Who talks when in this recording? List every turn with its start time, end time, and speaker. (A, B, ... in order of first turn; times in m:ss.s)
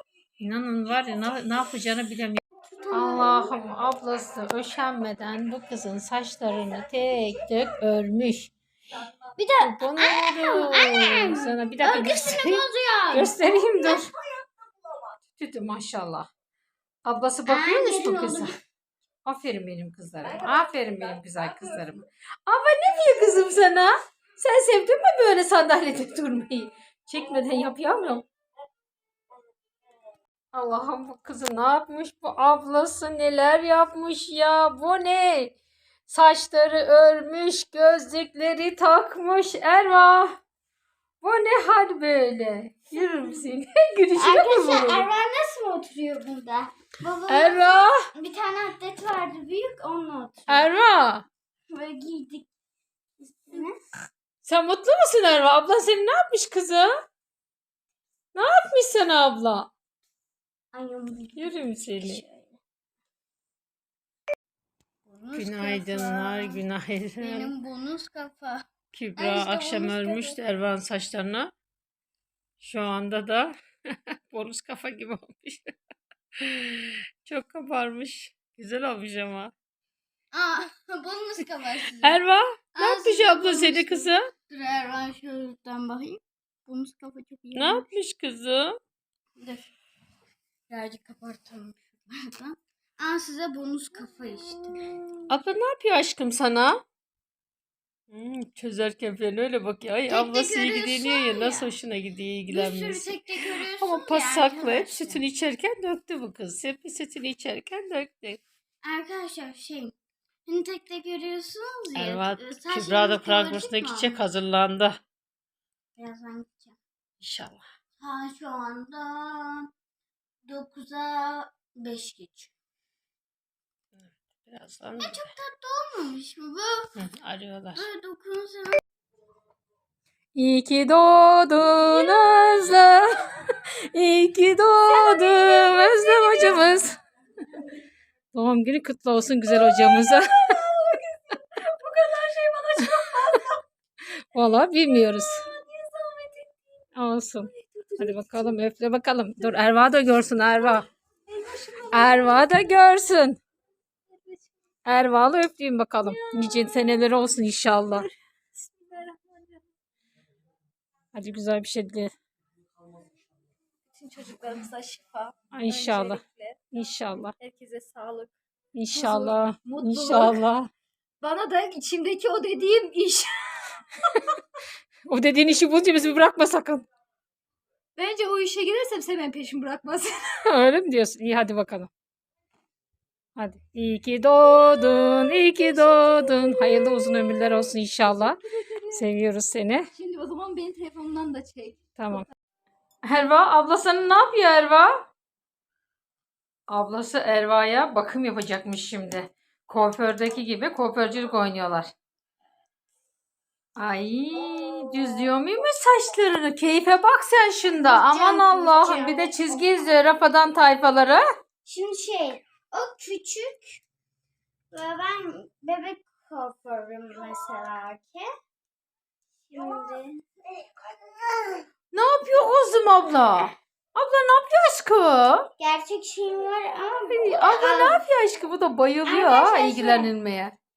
0:00.4-0:08.5 A
0:02.7-0:03.5 B
0:09.4-0:14.0 B
0:09.6-0:14.1 A
0:15.4-0:16.3 A
0:17.0-0:18.5 A
0:17.4-0:18.5 B
0:19.2-0:28.2 A
0:30.5-0:35.5 A
0:36.1-0:40.4 A
0:41.2-0:45.1 A
0:43.1-0:43.4 B
0:44.2-0:50.8 B
0:47.3-0:48.1 A
0:50.5-0:51.2 A
0:51.7-0:52.5 B
0:53.2-0:53.8 B
0:54.4-0:56.9 A
0:58.3-0:59.7 A
1:00.7-1:02.6 B
1:01.4-1:02.2 A
1:05.0-1:06.6 B
1:05.3-1:07.5 A
1:07.2-1:10.4 B
1:08.9-1:11.5 A
1:12.6-1:15.7 A
1:16.4-1:19.5 A
1:20.3-1:22.2 B
1:22.0-1:24.3 A
1:22.8-1:27.9 B
1:27.5-1:28.8 A
1:29.4-1:29.7 B
1:30.7-1:35.0 B
1:35.3-1:36.8 A
1:38.1-1:48.4 A
1:40.1-1:41.7 B
1:42.5-1:45.2 B
1:48.8-1:54.2 B
1:52.0-1:55.0 A
1:56.0-1:56.8 B
1:57.2-1:57.6 A
1:58.0-1:59.7 B
2:00.4-2:02.5 B
2:04.0-2:05.2 A
2:05.0-2:06.9 B
2:07.0-2:07.9 A
2:07.7-2:08.8 B
2:10.3-2:16.9 A
2:11.9-2:12.9 B
2:14.9-2:16.8 B
2:18.3-2:20.6 A
2:20.6-2:21.0 B
2:21.6-2:23.5 C
2:22.8-2:23.0 A
2:24.3-2:25.4 A
2:25.5-2:26.3 B
2:25.6-2:26.2 C
2:27.0-2:30.9 A
2:31.4-2:32.1 C
2:31.5-2:32.4 B
2:31.9-2:33.4 A
2:34.8-2:38.1 A
2:36.1-2:36.6 B
2:38.6-2:39.6 C
2:41.1-2:42.1 A
2:43.9-2:46.6 C
2:45.5-2:47.3 A
2:47.4-2:48.3 C
2:48.7-2:50.7 A
2:48.9-2:50.4 C
2:51.2-2:54.4 C
2:55.1-2:56.8 A
2:58.0-3:00.3 C
3:00.4-3:01.9 A
3:03.4-3:09.9 A
3:08.0-3:09.0 C
3:09.9-3:11.8 C
3:12.0-3:12.3 A
3:13.0-3:15.1 A
3:16.7-3:21.9 A
3:23.8-3:31.2 A
3:27.8-3:29.5 B
3:31.6-3:33.8 B
3:34.7-3:38.3 B
3:39.5-3:40.2 B
3:40.8-3:41.6 B
3:41.9-3:45.5 A
3:45.6-3:48.0 B
3:47.1-3:50.5 A
3:49.0-3:50.1 B